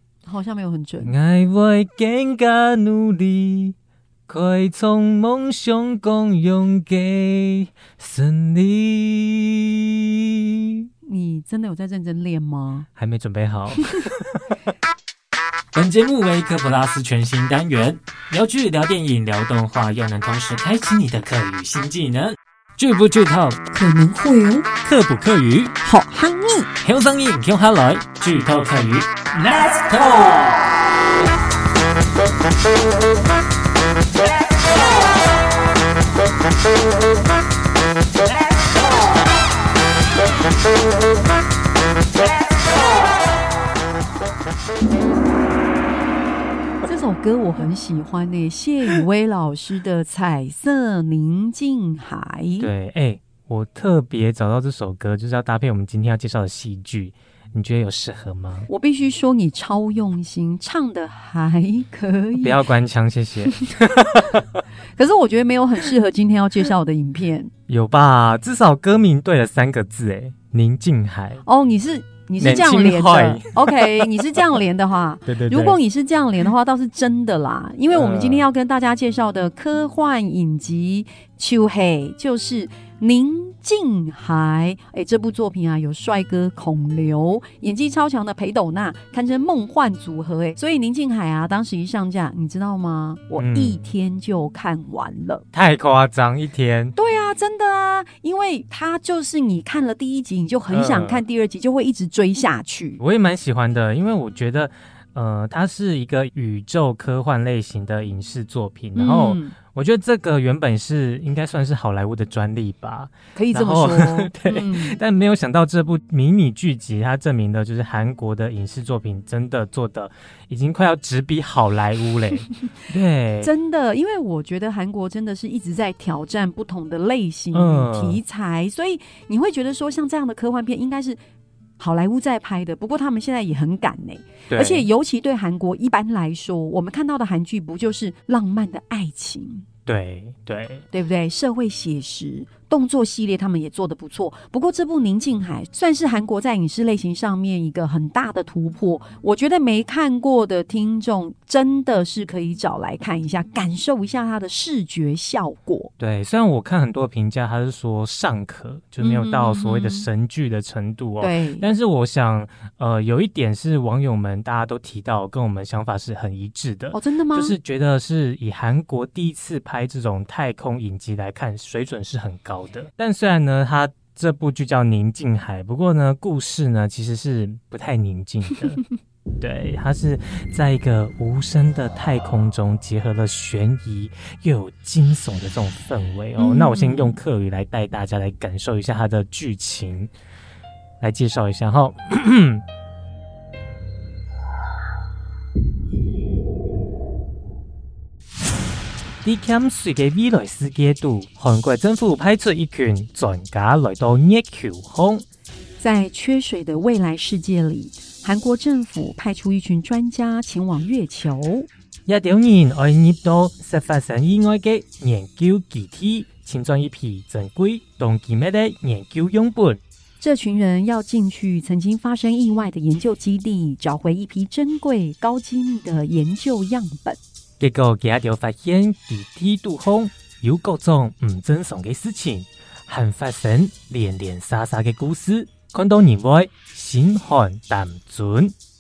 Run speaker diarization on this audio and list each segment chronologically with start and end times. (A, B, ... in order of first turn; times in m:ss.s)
0:00.3-0:01.1 A
0:01.0-0:03.8 B
0:04.3-0:09.8 B
0:11.0-0:12.9 A
0:13.0-0:14.6 B
0:15.7-0:23.6 B
0:23.7-0:24.7 A
0:24.8-0:25.8 B
0:25.8-0:26.7 A
0:26.8-0:30.5 B
0:46.8-0:52.7 A
0:52.6-0:58.7 B
0:58.7-1:02.6 A
1:02.4-1:04.6 B
1:03.6-1:03.9 A
1:05.0-1:07.5 A
1:07.7-1:11.4 B
1:11.4-1:35.4 A
1:12.4-1:14.0 B
1:15.3-1:15.8 B
1:17.9-1:18.4 B
1:33.4-1:33.8 B
1:35.5-1:37.0 B
1:37.0-1:43.0 A
1:40.7-1:41.2 B
1:43.0-2:03.5 B
1:49.0-1:49.6 A
1:53.4-1:55.0 A
2:03.4-2:11.2 A
2:07.5-2:08.2 B
2:11.8-2:19.6 A
2:14.5-2:14.9 B
2:19.9-2:20.8 B
2:20.9-2:35.9 A
2:36.0-2:58.8 B
2:39.0-2:40.1 A
2:41.2-2:41.7 A
2:46.9-2:47.6 A
2:59.4-3:10.1 B
3:06.4-3:07.2 A
3:11.0-3:12.6 B
3:19.2-3:25.2 B
3:25.8-3:31.7 A
3:32.1-3:39.8 B
3:40.2-3:47.2 A
3:47.6-3:58.6 B